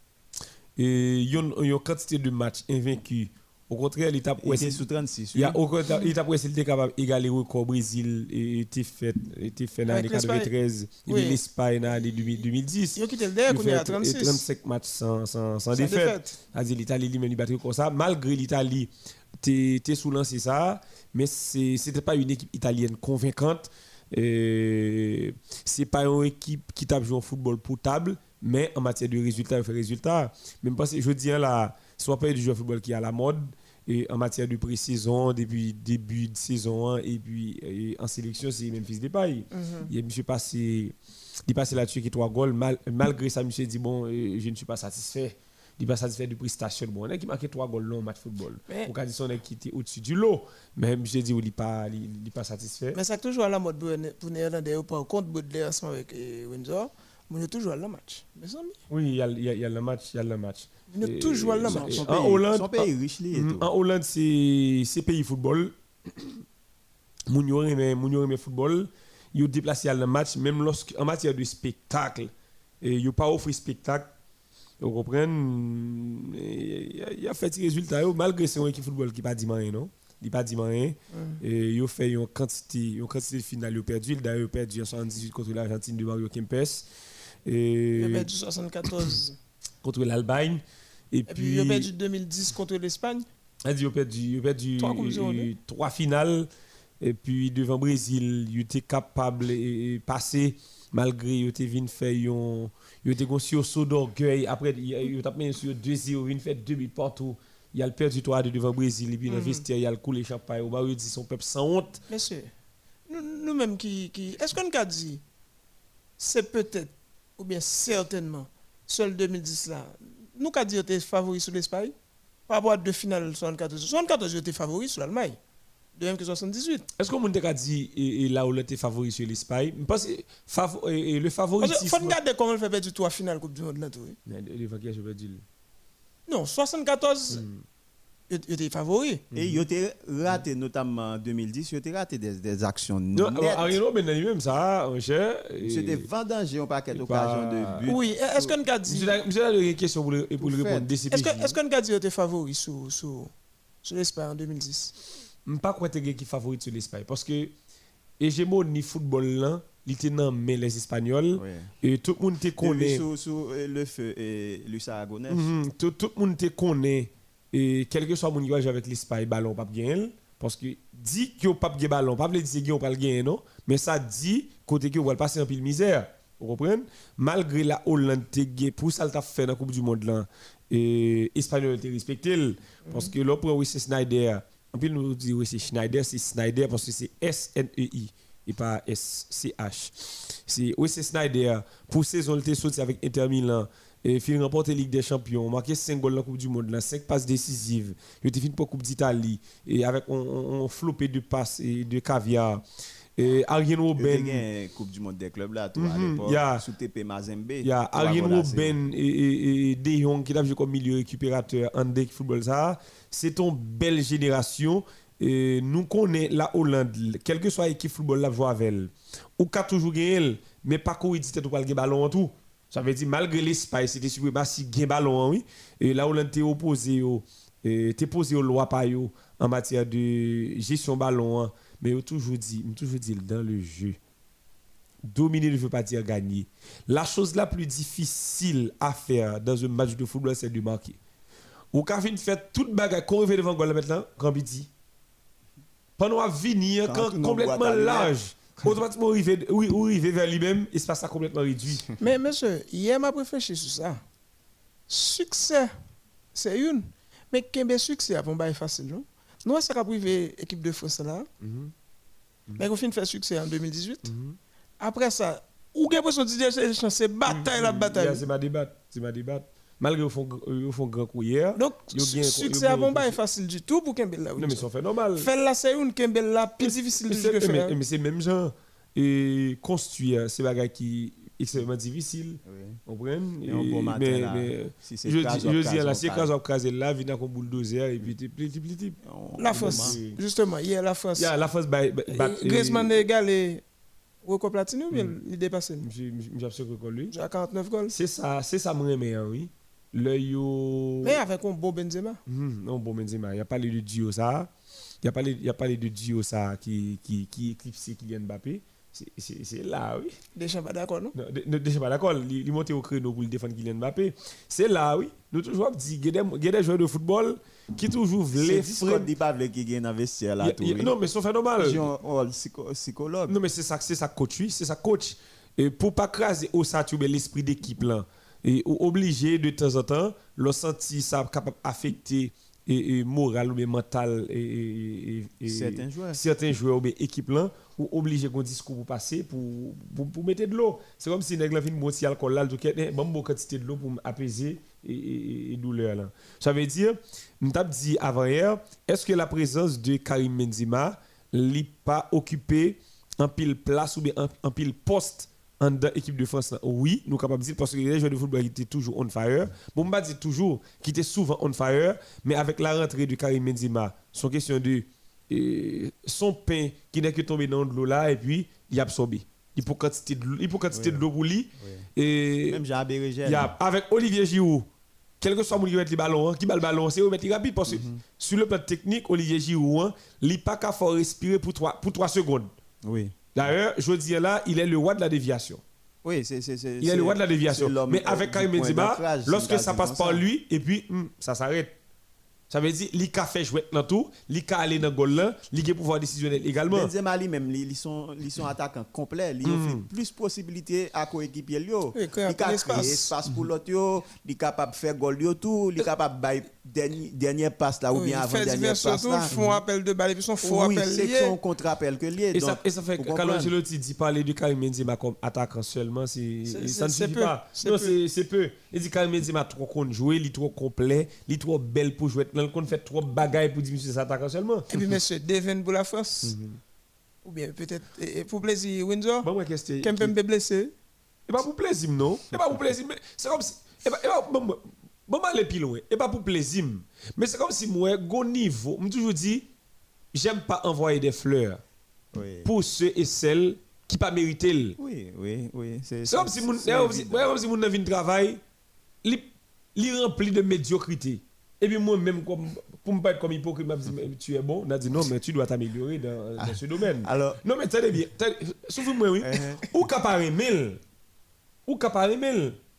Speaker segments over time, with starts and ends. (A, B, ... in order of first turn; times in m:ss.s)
0:00.8-0:04.8 A
0:04.4-0:05.6 B
0:05.3-0:40.9 A
0:05.9-0:06.1 C
0:09.9-0:10.5 C
0:11.1-0:11.4 C
0:12.1-0:12.4 C
0:13.0-0:14.4 C
0:15.7-0:16.4 C
0:39.5-0:39.9 C
0:41.5-0:53.0 A
0:52.9-0:58.8 C
0:58.9-1:06.4 A
1:00.9-1:02.2 C
1:01.6-1:03.6 B
1:07.3-1:14.1 A
1:14.8-1:26.9 A
1:21.1-1:21.4 C
1:27.4-1:28.3 A
1:28.0-1:29.4 C
1:29.8-1:31.9 A
1:31.3-1:33.3 C
1:33.6-1:36.5 A
1:34.8-1:35.5 C
1:37.0-1:52.0 A
1:49.3-1:49.6 C
1:52.1-1:52.5 C
1:53.1-1:55.2 C
1:56.2-2:01.9 C
2:02.5-2:05.4 C
2:05.9-2:06.9 C
2:07.0-2:12.2 A
2:11.6-2:14.2 C
2:14.3-2:15.4 A
2:16.3-2:17.4 C
2:17.3-2:17.6 A
2:18.3-2:19.2 C
2:19.3-2:19.6 A
2:19.3-2:23.8 B
2:23.2-2:26.1 A
2:25.6-2:28.5 B
2:26.9-2:27.8 A
2:27.8-2:29.2 C
2:28.9-2:31.6 A
2:30.4-2:30.8 B
2:31.1-2:33.3 C
2:33.8-2:34.9 C
2:35.4-2:37.5 A
2:38.2-2:43.0 A
2:41.4-2:41.7 B
2:42.6-2:45.5 B
2:45.3-3:22.6 A
3:02.9-3:03.1 C
3:23.2-3:24.4 A
3:24.0-3:28.8 B
3:25.8-3:26.6 A
3:27.6-3:54.0 A
3:55.0-4:01.0 A
4:01.7-4:04.7 A
4:06.0-4:11.9 A
4:06.8-4:08.1 B
4:12.0-4:14.0 C
4:14.9-4:15.7 C
4:16.3-4:21.3 C
4:21.4-4:21.7 A
4:22.6-4:24.1 C
4:24.0-4:24.4 A
4:24.8-4:28.2 C
4:27.3-4:33.2 A
4:31.5-4:37.8 C
4:34.4-4:35.3 A
4:36.6-4:50.2 A
4:42.4-4:42.8 B
4:43.4-4:46.3 B
4:49.0-4:50.0 B
4:49.4-4:51.3 C
4:51.2-4:52.9 A
4:52.1-4:53.6 C
4:54.2-4:55.9 C
4:55.8-4:57.1 A
4:57.1-4:57.9 C
4:57.9-5:01.2 A
5:01.0-5:02.2 C
5:02.3-5:04.5 A
5:05.0-5:10.2 A
5:10.3-5:11.1 C
5:11.1-5:19.1 A
5:18.3-5:20.9 B
5:20.4-5:21.9 A
5:21.6-5:23.3 B
5:23.3-6:12.6 A
5:35.4-5:36.2 B
6:10.7-6:11.1 B
6:11.6-6:11.9 B
6:12.5-6:13.5 B
6:13.2-6:14.6 A
6:15.2-6:22.5 A
6:17.6-6:18.0 B
6:22.8-6:23.2 B
6:23.3-6:25.6 A
6:26.0-6:30.2 B
6:26.8-6:31.7 A
6:32.5-6:36.9 A
6:36.7-6:49.3 B
6:39.4-6:39.9 A
6:41.9-6:43.1 C
6:47.9-6:51.4 C
6:49.3-6:49.6 A
6:50.4-6:53.5 B
6:52.3-7:04.8 A
6:56.5-6:58.0 C
7:04.7-7:06.4 C
7:07.2-7:09.3 C
7:09.2-7:10.1 A
7:09.8-7:10.7 C
7:11.3-7:19.4 A
7:20.1-7:21.6 A
7:22.1-7:22.5 B
7:22.4-7:24.8 A
7:24.8-7:27.3 B
7:26.1-7:28.4 A
7:29.0-7:40.8 A
7:36.4-7:37.4 B
7:39.2-7:39.7 B
7:41.7-7:42.6 A